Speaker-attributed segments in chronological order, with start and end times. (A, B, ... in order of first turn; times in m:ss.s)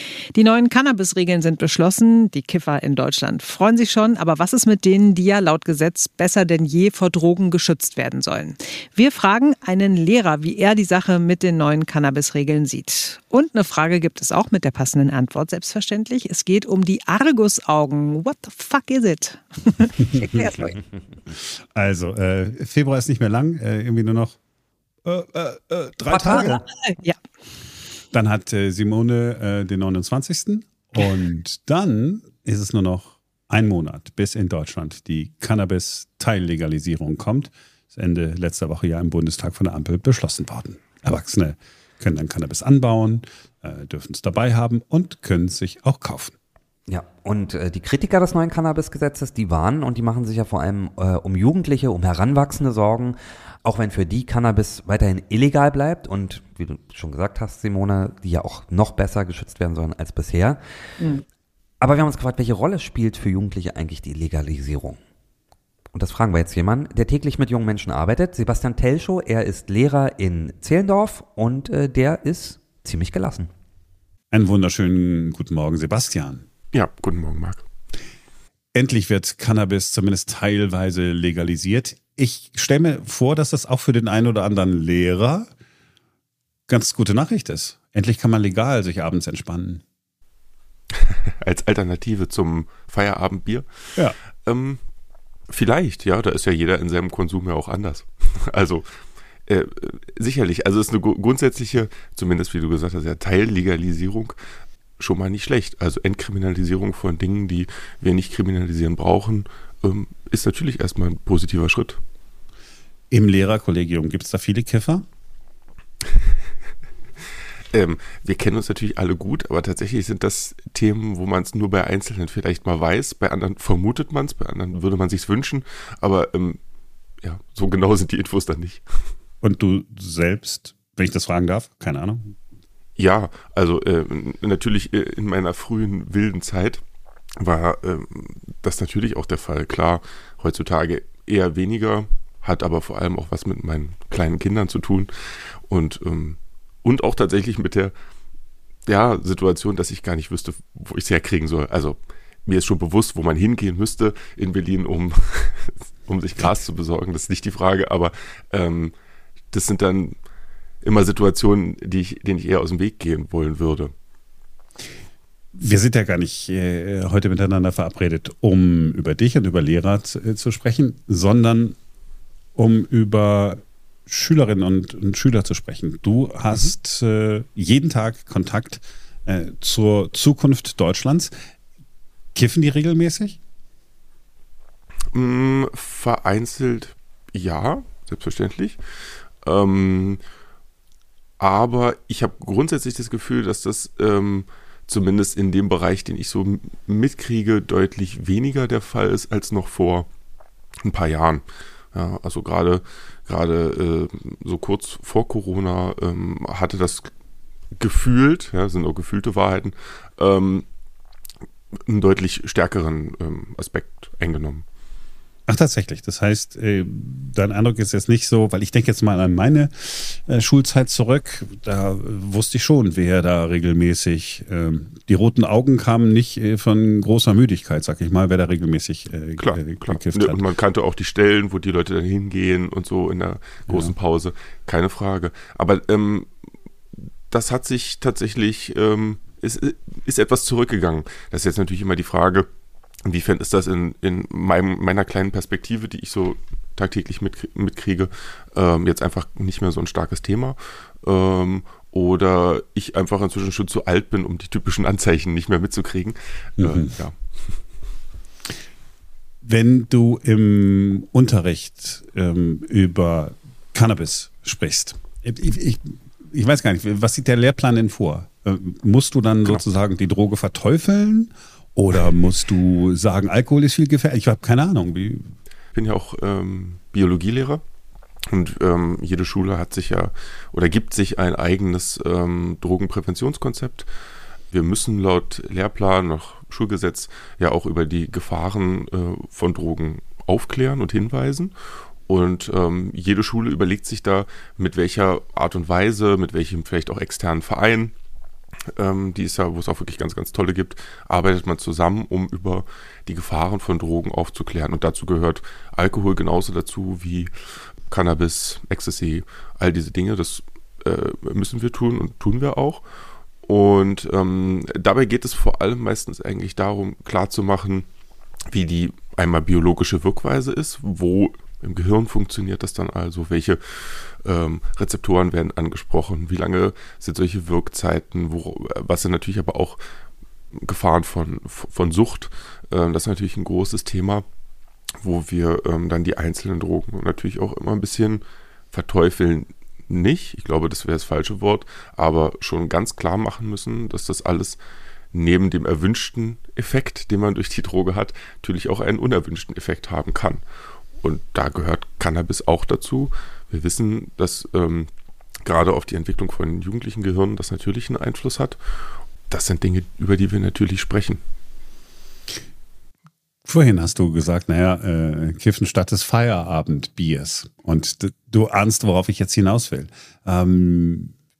0:00.3-0:20.7 A
0:20.1-0:20.7 B
0:21.7-0:24.4 B
0:25.0-0:26.6 B
0:26.3-0:27.2 A
0:28.1-0:46.3 B
0:46.9-1:00.6 C
1:01.8-1:05.0 C
1:05.9-1:13.5 C
1:14.3-1:16.4 B
1:16.7-1:17.6 D
1:18.7-1:25.5 B
1:26.7-1:29.8 B
1:31.0-1:33.7 D
1:34.4-1:34.8 D
1:35.5-1:38.8 D
1:39.5-1:44.4 D
1:45.0-1:52.0 D
1:53.1-1:55.0 B
1:57.7-2:06.6 D
2:07.2-2:08.8 D
2:09.4-2:12.3 B
2:13.0-2:16.8 D
2:17.4-2:25.1 D
2:25.7-2:27.9 D
2:28.9-2:38.9 D
2:39.5-2:40.2 D
2:40.8-2:43.9 D
2:45.5-2:51.8 B
2:52.5-3:01.3 B
3:02.3-3:03.4 B
3:05.1-3:08.8 D
3:09.4-3:10.2 D
3:11.4-3:20.1 D
3:20.8-3:27.1 D
3:27.8-3:30.6 D
3:31.9-3:34.6 D
3:35.5-3:50.4 B
3:49.4-3:56.3 D
3:57.3-4:02.5 D
4:03.0-4:17.2 D
4:16.6-4:16.9 B
4:19.4-4:35.3 B
4:35.7-4:37.6 D
4:38.3-4:43.9 D
4:44.5-4:51.5 D
4:52.1-4:57.9 D
4:58.7-5:07.3 D
5:07.9-5:12.8 D
5:13.4-5:17.8 D
5:18.5-5:29.8 D
5:30.6-5:34.2 D
5:35.0-5:44.6 D
5:45.1-5:50.4 D
5:51.0-5:54.9 D
5:55.4-5:58.6 D
5:59.3-6:01.2 D
6:03.4-6:11.1 B